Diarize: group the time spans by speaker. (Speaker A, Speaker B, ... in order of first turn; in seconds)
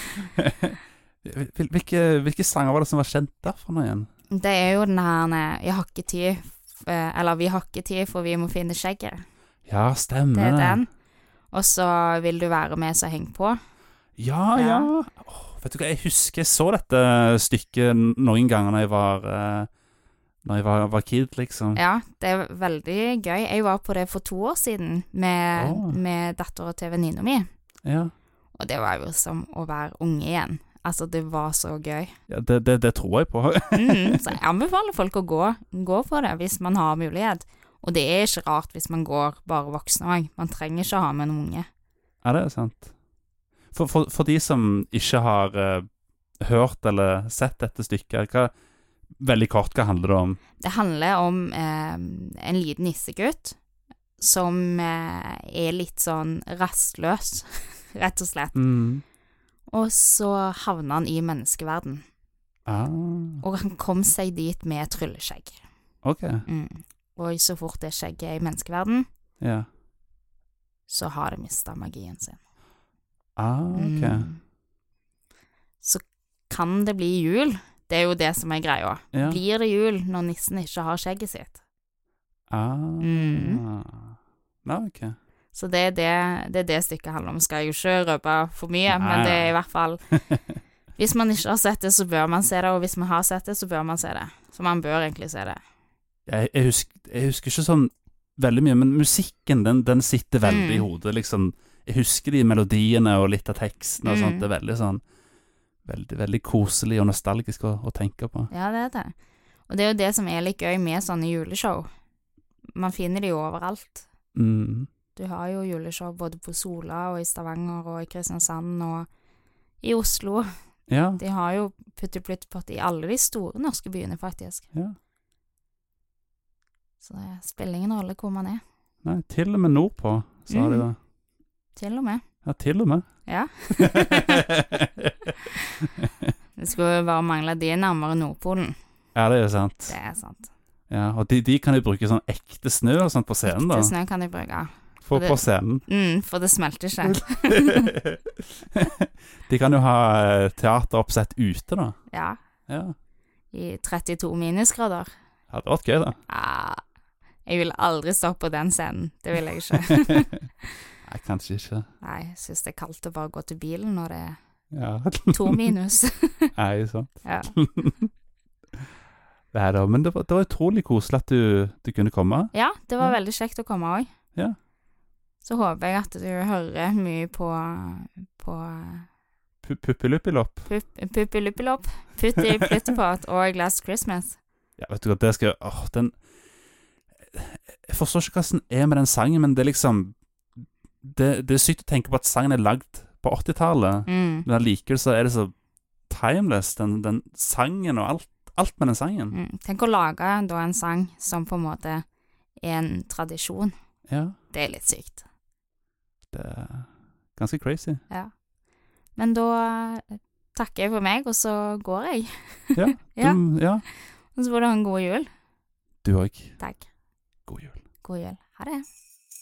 Speaker A: 0.2-4.1, 9.7-10.8, 14.2-19.7, 20.4-21.8, 25.5-26.0, 27.9-28.1, 32.3-34.4, 42.2-42.9, 43.7-45.9, 46.4-48.5, 49.2-50.4, 58.5-59.0, 62.7-63.4, 66.0-66.4, 69.4-69.7, 73.4-74.3, 79.1-79.4, 82.5-85.2, 88.9-89.5, 96.3-105.0, 105.8-108.5, 114.3-114.9, 120.9-121.2, 129.0-131.0, 132.4-133.0, 133.7-135.1, 135.9-136.3, 139.1-139.9, 140.9-143.9, 145.0-145.8, 147.0-151.9, 152.7-152.9, 155.5-156.2, 159.9-160.1, 161.0-161.9, 164.7-165.6, 166.6-168.1, 169.5-173.1, 179.6-180.7, 184.8-186.1, 187.3-195.5, 196.1-199.4, 204.1-204.4, 206.3-208.0, 212.8-213.8, 216.0-216.6, 217.5-217.8
Speaker B: 4.3-9.2, 10.3-10.9, 11.5-13.6, 14.5-14.9, 21.7-27.5, 28.5-32.1, 33.7-41.7, 50.6-53.6, 54.2-58.6, 59.7-62.0, 63.4-65.6, 66.5-69.0, 70.9-72.4, 73.7-74.4, 75.8-81.6, 83.0-83.6, 85.5-90.0, 91.0-95.6, 100.4-100.9, 104.0-104.5, 108.5-109.1, 109.7-111.9, 112.8-114.0, 115.1-119.1, 119.8-120.5, 121.2-124.7, 127.0-128.6, 130.5-130.9, 131.8-132.2, 133.2-134.5, 136.6-138.8, 139.9-140.5, 143.5-147.9, 152.1-152.4, 153.5-155.1, 156.3-156.8, 157.4-160.4, 162.0-164.4, 165.3-166.5, 167.2-167.5, 172.5-174.1, 175.4-179.1, 180.7-184.4, 194.1-194.5, 199.3-202.0, 202.6-203.7, 204.5-205.2, 209.2-215.3, 216.6-216.9, 218.0-218.8